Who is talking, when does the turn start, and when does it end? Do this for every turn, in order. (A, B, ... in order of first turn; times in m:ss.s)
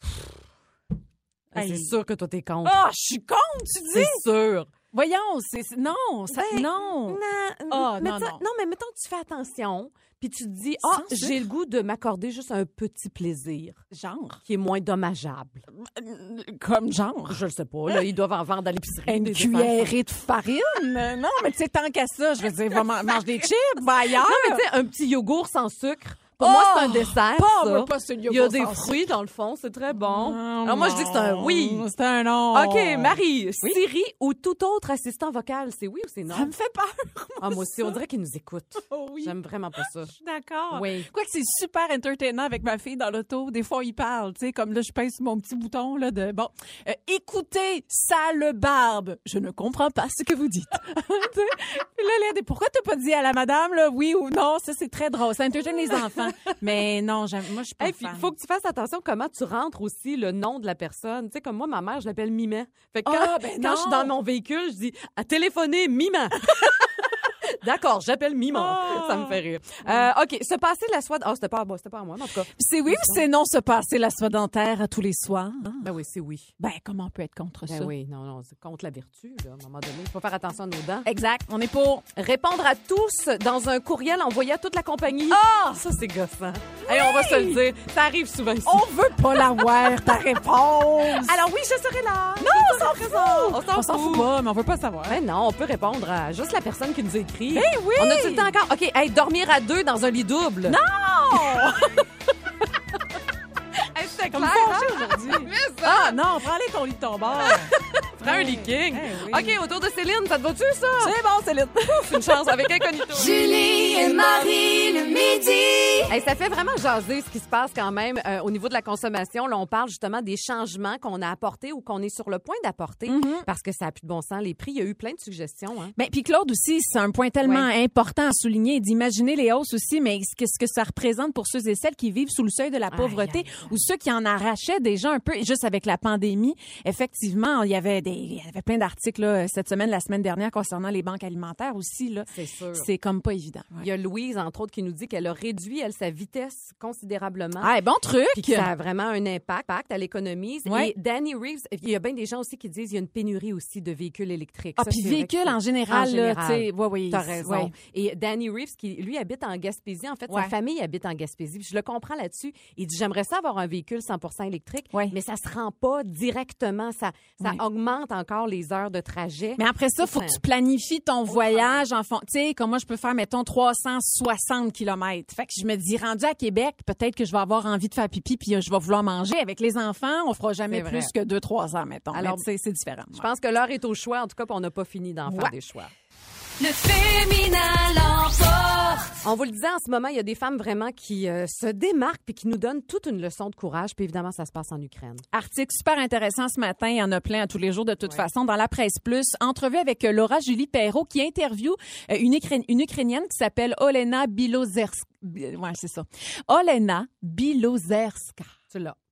0:01.5-0:01.9 A
0:01.5-0:02.8 B
0:02.6-0:04.2 A
0:03.9-0:04.7 B
0:04.9-0:08.4 A
0:06.3-0:13.8 B
0:10.8-0:11.4 A
0:13.9-0:14.4 A
0:14.5-0:15.6 B
0:15.8-0:18.0 A
0:17.3-0:19.9 B
0:19.1-0:24.6 A
0:24.2-0:31.9 B
0:26.4-0:29.0 A
0:30.0-0:33.8 A
0:32.5-0:36.5 B
0:36.3-0:38.0 A
0:37.4-0:40.1 B
0:38.9-0:39.3 A
0:40.1-0:58.3 A
0:40.7-0:41.1 B
0:56.2-0:56.5 B
0:57.8-1:07.0 B
1:03.0-1:04.1 A
1:07.6-1:13.2 B
1:08.5-1:10.1 A
1:12.5-1:15.9 A
1:15.8-1:16.5 B
1:16.6-1:17.9 A
1:17.7-1:21.1 B
1:21.1-1:22.0 A
1:22.2-1:29.8 B
1:25.2-1:25.8 A
1:26.8-1:27.6 A
1:28.6-1:31.4 A
1:31.1-1:34.3 B
1:32.4-1:35.2 A
1:35.1-1:40.8 B
1:37.5-1:38.5 A
1:40.7-1:42.1 A
1:44.0-1:46.2 B
1:44.0-1:49.6 A
1:47.3-1:47.6 B
1:48.2-1:51.2 B
1:51.0-1:56.0 A
1:52.0-1:53.4 B
1:56.1-2:06.0 B
2:03.1-2:03.5 A
2:06.0-2:23.9 A
2:07.4-2:07.7 B
2:12.9-2:13.8 B
2:22.3-2:22.9 B
2:23.8-2:27.7 B
2:27.6-2:28.7 A
2:28.3-2:50.4 B
2:30.7-2:30.9 A
2:34.8-2:37.7 A
2:44.9-2:45.2 A
2:49.6-3:03.3 A
2:51.3-2:51.8 B
3:00.7-3:01.1 B
3:02.1-3:02.4 B
3:03.1-3:05.9 B
3:05.3-3:05.6 A
3:06.6-3:09.0 C
3:06.8-3:08.3 A
3:09.2-3:15.2 B
3:15.3-3:28.5 A
3:28.7-3:29.0 B